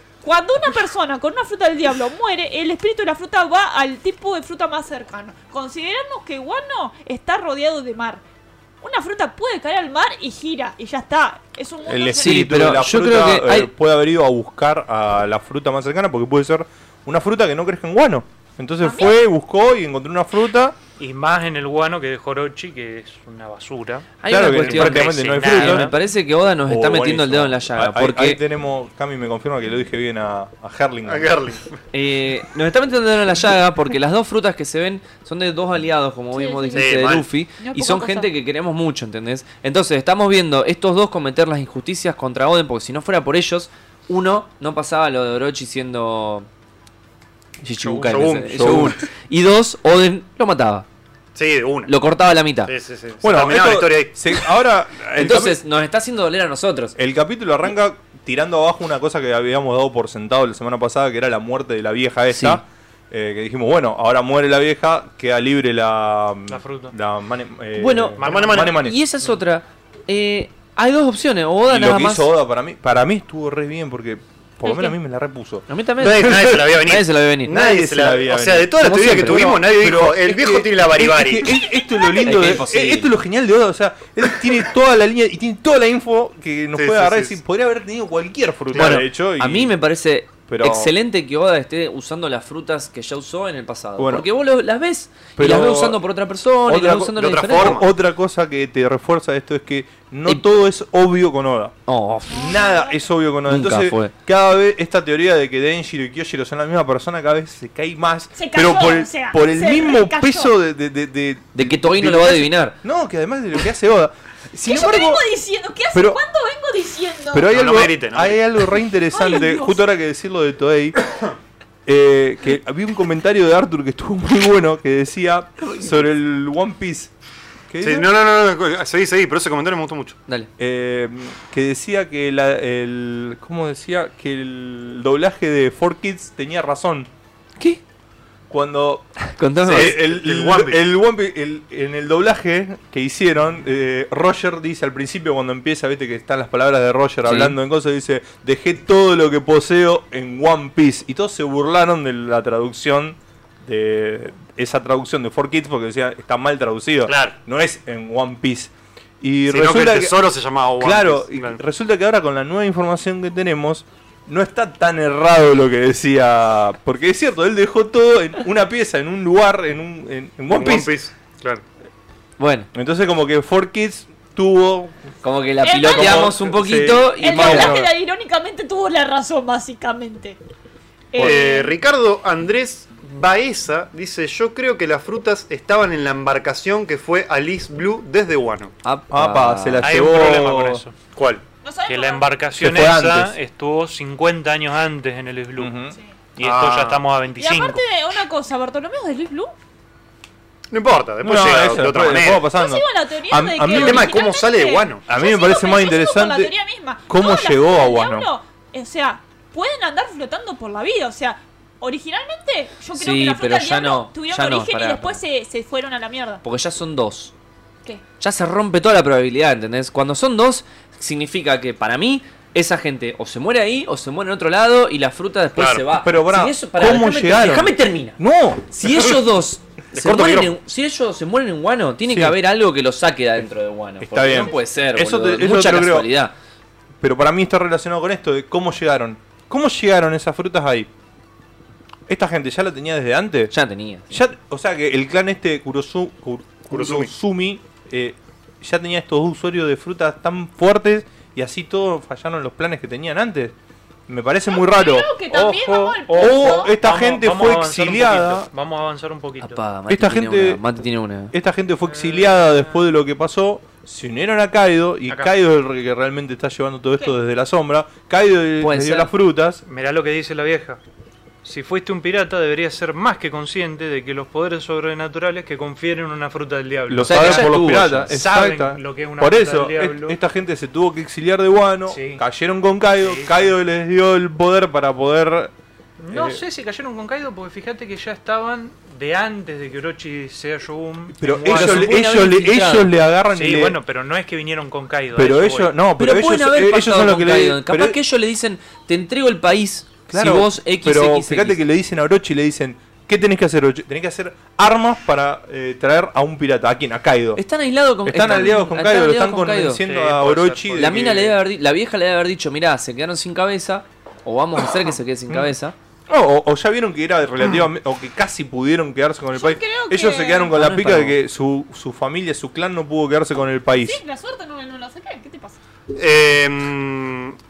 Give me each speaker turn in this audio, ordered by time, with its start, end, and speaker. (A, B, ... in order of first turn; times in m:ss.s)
0:00.2-0:08.2 A
0:08.8-0:12.5 A
0:11.9-0:20.8 B
0:12.2-0:13.7 C
0:18.8-0:19.1 A
0:21.0-0:25.9 D
0:24.2-0:28.4 C
0:24.3-0:25.9 B
0:26.6-0:31.3 B
0:31.0-0:31.7 E
0:31.9-0:46.5 C
0:36.3-0:37.0 A
0:36.7-0:37.3 E
0:37.6-0:38.3 A
0:47.6-0:50.8 C
0:47.8-0:49.0 E
0:48.5-0:49.0 B
0:51.3-0:51.9 E
0:51.8-0:52.7 C
0:52.6-0:54.2 E
0:53.2-0:55.6 B
0:55.2-0:56.9 C
0:57.0-1:09.0 B
1:02.3-1:02.6 C
1:06.5-1:06.9 D
1:07.8-1:12.3 C
1:08.2-1:08.6 D
1:08.2-1:08.8 E
1:11.7-1:16.7 B
1:14.6-1:15.0 A
1:15.7-1:17.5 C
1:16.0-1:21.6 E
1:17.5-1:29.7 B
1:18.8-1:19.5 C
1:22.2-1:23.1 C
1:26.7-1:27.4 E
1:28.7-1:29.0 E
1:28.7-1:37.8 C
1:30.5-1:30.9 B
1:34.0-1:34.2 B
1:35.4-1:36.0 B
1:36.6-1:41.7 B
1:37.1-1:37.9 E
1:40.2-1:40.6 C
1:41.9-1:42.5 C
1:42.3-1:43.0 A
1:42.3-1:55.2 B
1:43.5-1:44.1 C
1:48.3-1:50.5 A
1:51.5-1:52.8 C
1:54.7-1:57.5 A
1:55.9-1:56.2 B
1:57.3-2:01.0 B
1:57.5-1:58.4 E
1:59.1-1:59.8 A
2:01.8-2:07.1 B
2:07.7-2:08.1 B
2:07.8-2:10.2 E
2:10.6-2:17.1 B
2:18.5-2:19.1 B
2:19.3-2:20.0 C
2:19.6-2:20.8 E
2:19.6-2:40.2 B
2:27.2-2:27.6 C
2:37.0-2:37.4 E
2:39.5-2:41.6 E
2:40.8-2:50.9 B
2:50.5-2:51.6 E
2:52.4-2:52.7 C
2:52.7-2:55.0 B
2:55.2-2:57.8 C
2:55.6-2:56.4 A
2:55.8-2:57.9 B
2:57.0-3:00.4 A
3:01.1-3:01.8 A
3:01.2-3:08.7 E
3:08.8-3:10.0 C
3:09.1-3:10.8 B
3:09.8-3:10.9 D
3:11.1-3:11.4 E
3:11.6-3:12.3 A
3:11.9-3:15.7 D
3:12.5-3:13.3 B
3:15.6-3:16.0 B
3:16.4-3:17.8 D
3:16.4-3:17.0 E
3:17.4-3:19.5 A
3:20.7-3:22.5 E
3:21.2-3:24.1 B
3:22.5-3:36.4 A
3:23.7-3:25.0 E
3:25.1-3:26.5 B
3:27.1-3:28.3 B
3:32.9-3:35.2 C
3:36.4-3:37.3 C
3:38.2-3:56.3 C
3:45.6-3:45.8 E
3:46.0-3:48.8 B
3:49.9-3:50.6 E
3:52.0-3:52.4 B
3:54.0-3:56.1 B
3:57.0-4:00.9 B
4:02.1-4:03.5 B
4:03.5-4:04.2 C
4:04.1-4:13.5 B
4:06.7-4:07.1 E
4:14.1-4:15.1 B
4:14.5-4:16.7 A
4:15.2-4:19.6 D
4:16.2-4:18.5 B
4:19.4-4:21.3 C
4:19.9-4:20.6 B
4:21.3-4:29.6 B
4:21.9-4:22.8 D
4:28.6-4:29.1 C
4:29.6-4:30.8 D
4:31.4-4:40.2 D
4:36.9-4:45.5 B
4:37.0-4:38.1 C
4:41.9-4:42.2 D
4:43.0-4:43.5 D
4:46.0-4:52.0 D
4:46.1-4:46.4 B
4:51.2-4:53.8 B
4:51.4-4:52.9 C
4:53.3-4:55.7 D
4:55.1-4:58.0 B
4:56.0-5:01.6 C
5:00.1-5:07.4 B
5:07.4-5:09.8 C
5:08.0-5:11.4 B
5:09.8-5:11.2 D
5:10.8-5:15.7 C
5:16.1-5:24.0 B
5:19.3-5:20.5 A
5:20.5-5:21.2 C
5:23.8-5:25.6 A
5:25.9-5:27.4 E